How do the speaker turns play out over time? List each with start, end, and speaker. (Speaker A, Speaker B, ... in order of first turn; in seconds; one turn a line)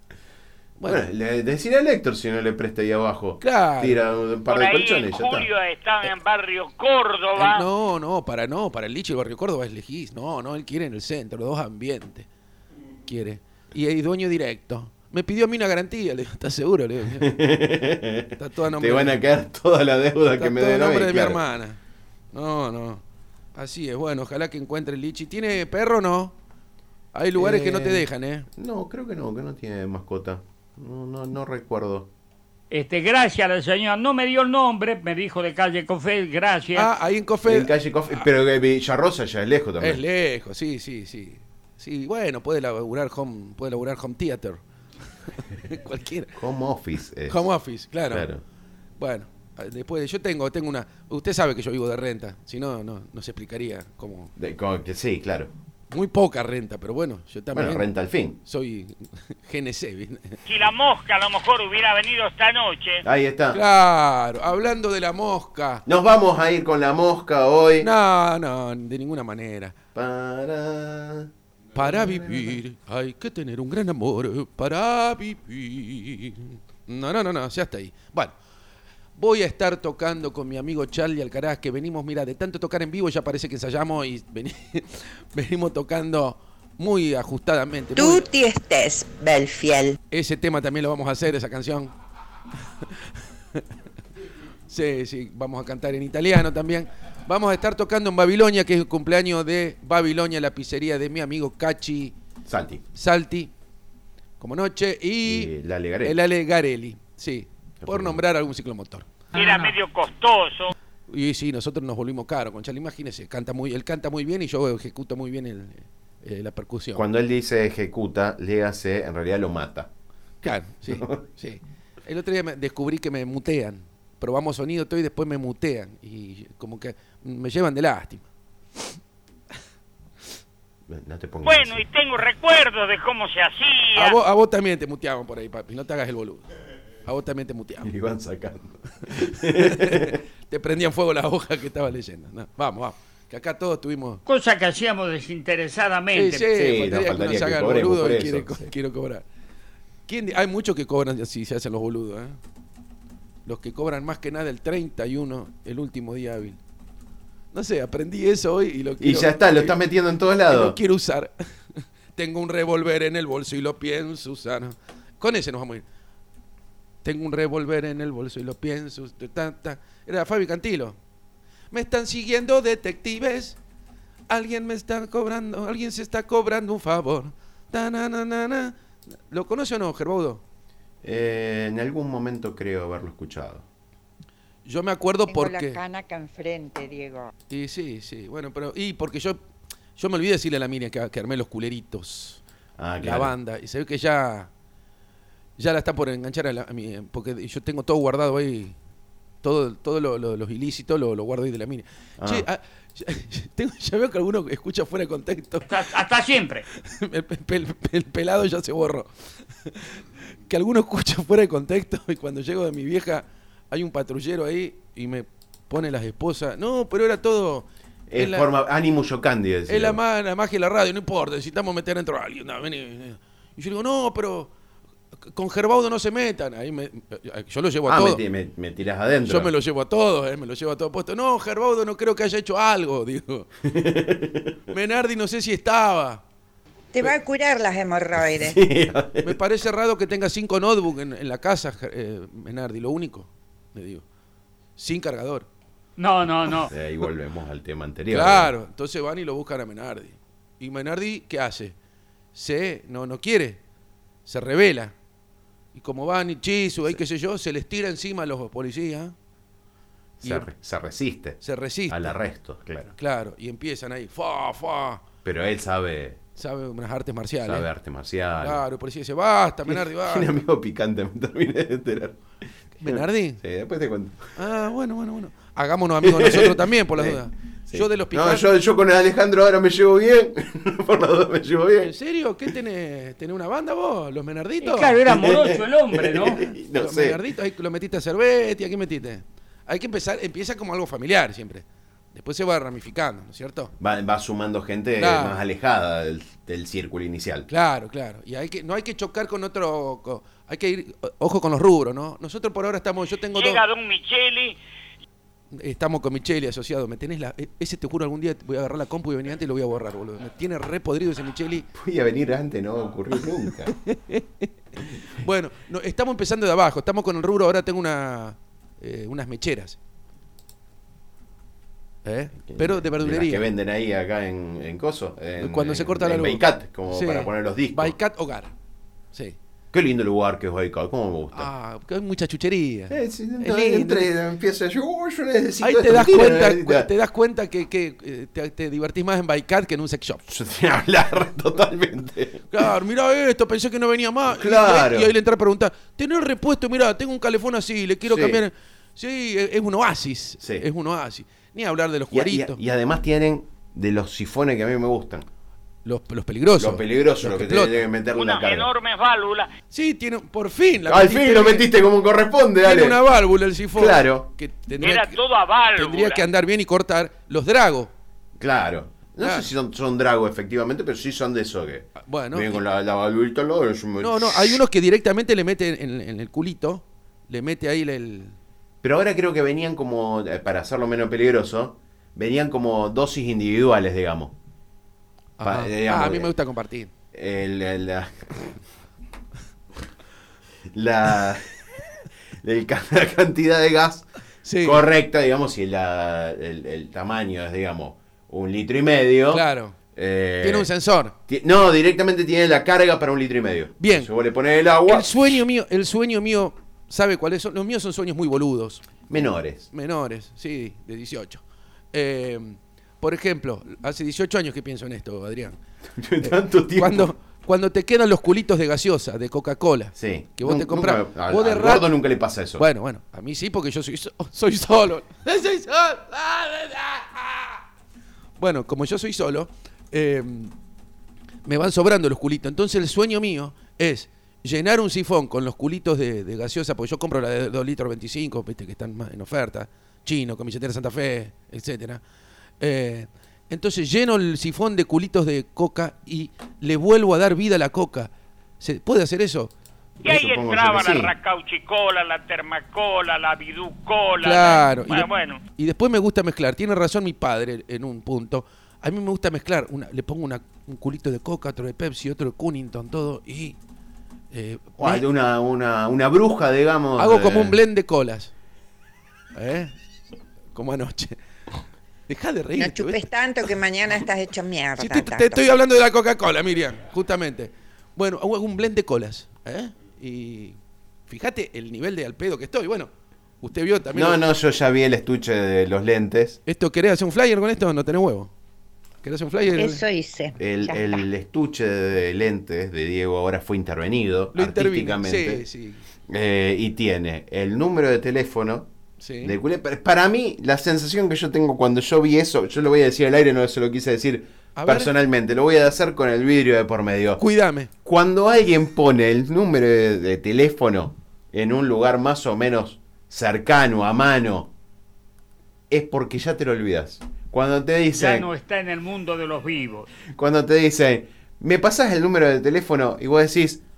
Speaker A: 0.8-1.0
Speaker B: 0.8-5.5
Speaker A: 3.4-4.0
Speaker C: 4.5-7.7
Speaker A: 7.4-12.3
Speaker A: 13.1-17.4
Speaker B: 17.1-21.4
Speaker A: 18.4-19.2
Speaker A: 20.4-21.8
Speaker A: 22.3-23.0
Speaker A: 23.6-26.3
Speaker A: 27.1-28.5
Speaker B: 27.4-32.1
Speaker D: 32.7-36.9
Speaker A: 36.8-38.3
Speaker B: 37.5-40.0
Speaker A: 39.8-44.6
Speaker A: 45.3-46.4
Speaker B: 46.4-47.5
Speaker A: 47.3-48.3
Speaker B: 48.1-48.4
Speaker A: 49.0-54.3
Speaker B: 54.4-55.5
Speaker A: 55.9-60.4
Speaker B: 57.5-58.4
Speaker C: 60.5-63.0
Speaker B: 63.0-63.6
Speaker A: 63.5-65.8
Speaker B: 65.9-67.9
Speaker A: 67.8-69.8
Speaker B: 70.0-72.6
Speaker A: 71.8-78.3
Speaker A: 79.2-88.3
Speaker E: 88.0-90.0
Speaker A: 90.1-91.9
Speaker A: 92.8-93.6
Speaker A: 94.7-102.1
Speaker B: 102.5-102.8
Speaker A: 102.9-103.5
Speaker A: 104.4-109.1
Speaker B: 105.2-106.2
Speaker B: 107.8-108.2
Speaker C: 109.3-110.7
Speaker D: 109.3-109.7
Speaker A: 111.1-117.0
Speaker B: 117.0-119.9
Speaker A: 120.4-128.3
Speaker B: 120.9-121.2
Speaker B: 130.9-131.8
Speaker C: 131.4-134.2
Speaker A: 133.9-136.4
Speaker A: 137.1-137.9
Speaker B: 137.8-140.2
Speaker A: 139.1-144.2
Speaker D: 144.3-146.5
Speaker A: 146.1-149.2
Speaker B: 146.5-148.7
Speaker A: 150.1-152.4
Speaker A: 153.5-156.6
Speaker A: 157.5-159.8
Speaker B: 159.0-160.8
Speaker A: 160.5-165.8
Speaker A: 167.0-171.0
Speaker A: 171.7-173.6
Speaker A: 174.3-180.4
Speaker B: 181.0-183.7
Speaker A: 184.7-185.8
Speaker E: 185.3-187.3
Speaker A: 187.5-189.4
Speaker A: 190.0-192.4
Speaker B: 192.8-193.3
Speaker A: 193.0-194.5
Speaker A: 195.6-198.8
Speaker A: 199.4-205.9
Speaker B: 202.2-202.5
Speaker D: 205.7-206.7
Speaker A: 206.8-209.1
Speaker A: 209.7-218.5
Speaker B: 218.1-220.0
Speaker A: 219.7-224.5
Speaker A: 225.3-228.2
Speaker B: 227.9-229.5
Speaker A: 229.2-233.5
Speaker B: 233.6-234.6
Speaker A: 234.7-236.2
Speaker E: 236.9-238.6
Speaker B: 238.2-239.4
Speaker A: 239.2-244.0
Speaker A: 244.8-245.5
Speaker D: 246.0-246.7
Speaker B: 246.7-248.5
Speaker A: 248.1-251.8
Speaker A: 252.3-253.6
Speaker A: 254.3-254.9
Speaker A: 255.8-259.1
Speaker B: 260.2-262.9
Speaker A: 260.2-260.5
Speaker A: 261.4-262.2
Speaker A: 263.0-265.0
Speaker B: 265.2-266.2
Speaker A: 266.4-267.7
Speaker B: 267.4-268.6
Speaker A: 268.4-270.4
Speaker B: 269.7-272.2
Speaker A: 272.8-273.4
Speaker B: 272.8-274.3
Speaker A: 274.4-278.5
Speaker B: 276.0-281.9
Speaker A: 281.8-285.1
Speaker D: 284.6-286.4
Speaker B: 285.1-287.2
Speaker A: 286.4-293.7
Speaker B: 293.8-297.5
Speaker A: 295.0-295.4
Speaker A: 297.5-303.6
Speaker C: 303.4-304.6
Speaker A: 305.5-311.7
Speaker B: 311.7-313.7
Speaker A: 313.7-319.8
Speaker A: 322.1-323.5
Speaker B: 322.5-328.0
Speaker A: 325.4-328.5
Speaker B: 329.7-331.5
Speaker A: 331.3-334.1
Speaker B: 332.9-336.9
Speaker A: 335.6-340.2
Speaker B: 340.3-342.5
Speaker A: 342.5-352.6
Speaker B: 344.3-345.1
Speaker B: 348.1-348.4
Speaker B: 352.1-355.3
Speaker A: 355.9-357.9
Speaker B: 356.6-358.7
Speaker C: 358.1-359.5
Speaker A: 359.7-361.7
Speaker B: 360.9-363.0
Speaker A: 362.6-365.2
Speaker B: 363.7-364.3
Speaker C: 364.8-366.2
Speaker A: 365.8-367.9
Speaker B: 368.4-374.6
Speaker A: 369.2-369.5
Speaker A: 372.0-372.6
Speaker A: 374.0-378.4
Speaker B: 378.8-384.3
Speaker A: 385.4-386.9
Speaker B: 385.4-386.3
Speaker B: 387.1-388.5
Speaker B: 390.7-391.5
Speaker B: 392.4-394.1
Speaker A: 394.4-394.9
Speaker B: 394.6-400.7
Speaker A: 399.3-399.8
Speaker A: 400.4-401.1
Speaker B: 401.3-405.2
Speaker A: 403.8-404.1
Speaker A: 404.9-408.9
Speaker B: 409.1-409.7
Speaker A: 409.7-411.4
Speaker A: 411.9-415.6
Speaker B: 416.0-417.1
Speaker A: 416.2-422.0
Speaker B: 420.0-422.6
Speaker A: 422.6-427.6
Speaker A: 428.4-430.5
Speaker A: 431.5-442.0
Speaker A: 442.6-449.5
Speaker C: 450.0-455.4
Speaker B: 450.0-451.1
Speaker A: 454.2-463.6
Speaker A: 464.3-465.1
Speaker B: 464.8-467.6
Speaker A: 467.0-468.3
Speaker A: 469.4-469.7
Speaker A: 470.5-471.2
Speaker A: 472.1-473.1
Speaker E: 472.6-475.4
Speaker A: 474.8-480.6
Speaker A: 481.1-482.9
Speaker A: 483.4-484.2
Speaker B: 483.9-486.4
Speaker A: 486.5-488.3
Speaker A: 489.0-489.8
Speaker E: 489.6-490.9
Speaker B: 490.4-495.4
Speaker A: 494.3-495.8
Speaker B: 496.1-498.7
Speaker A: 499.0-499.4
Speaker B: 499.2-507.2
Speaker A: 504.6-504.9
Speaker A: 507.2-507.7
Speaker B: 507.8-514.5
Speaker B: 515.7-518.3
Speaker D: 518.0-519.9
Speaker B: 520.1-523.6